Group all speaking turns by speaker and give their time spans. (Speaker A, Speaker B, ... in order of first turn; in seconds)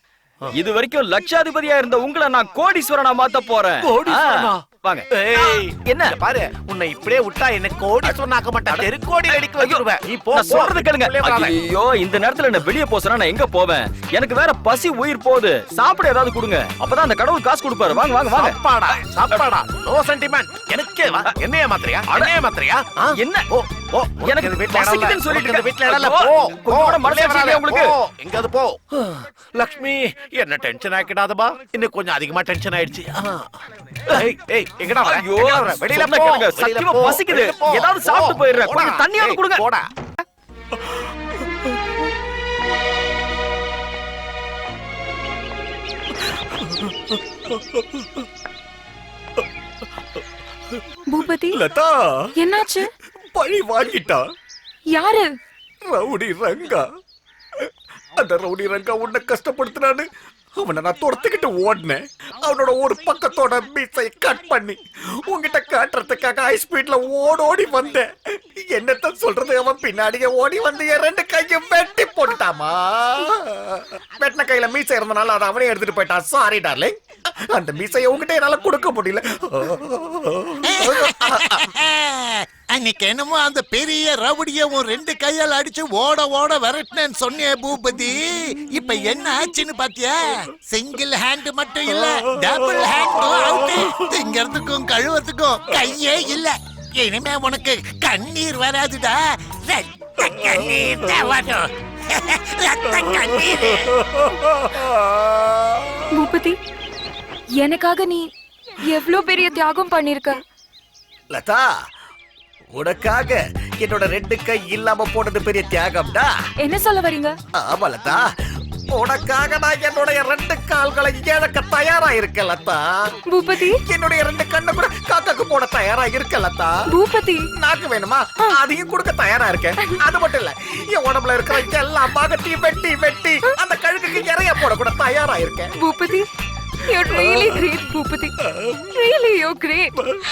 Speaker A: 0.5-6.2, 8.7-18.6, 23.2-23.5, 24.2-27.9, 35.0-39.6
Speaker B: 3.8-11.6, 18.2-33.5, 34.1-39.9
Speaker C: 46.6-48.2, 51.5-52.3, 53.3-54.2, 55.9-56.9, 57.6-81.7, 103.9-106.1, 111.3-111.7, 112.7-116.3, 117.6-118.3, 118.9-123.1, 123.7-126.8, 127.6-135.7, 137.1-137.7
Speaker D: 51.1-51.6, 52.4-52.9, 54.9-55.3, 106.1-106.6, 107.6-108.3, 108.8-110.4, 116.6-117.3, 123.3-123.8, 126.9-127.5, 135.8-136.3, 136.8-139.9
Speaker E: 80.6-104.0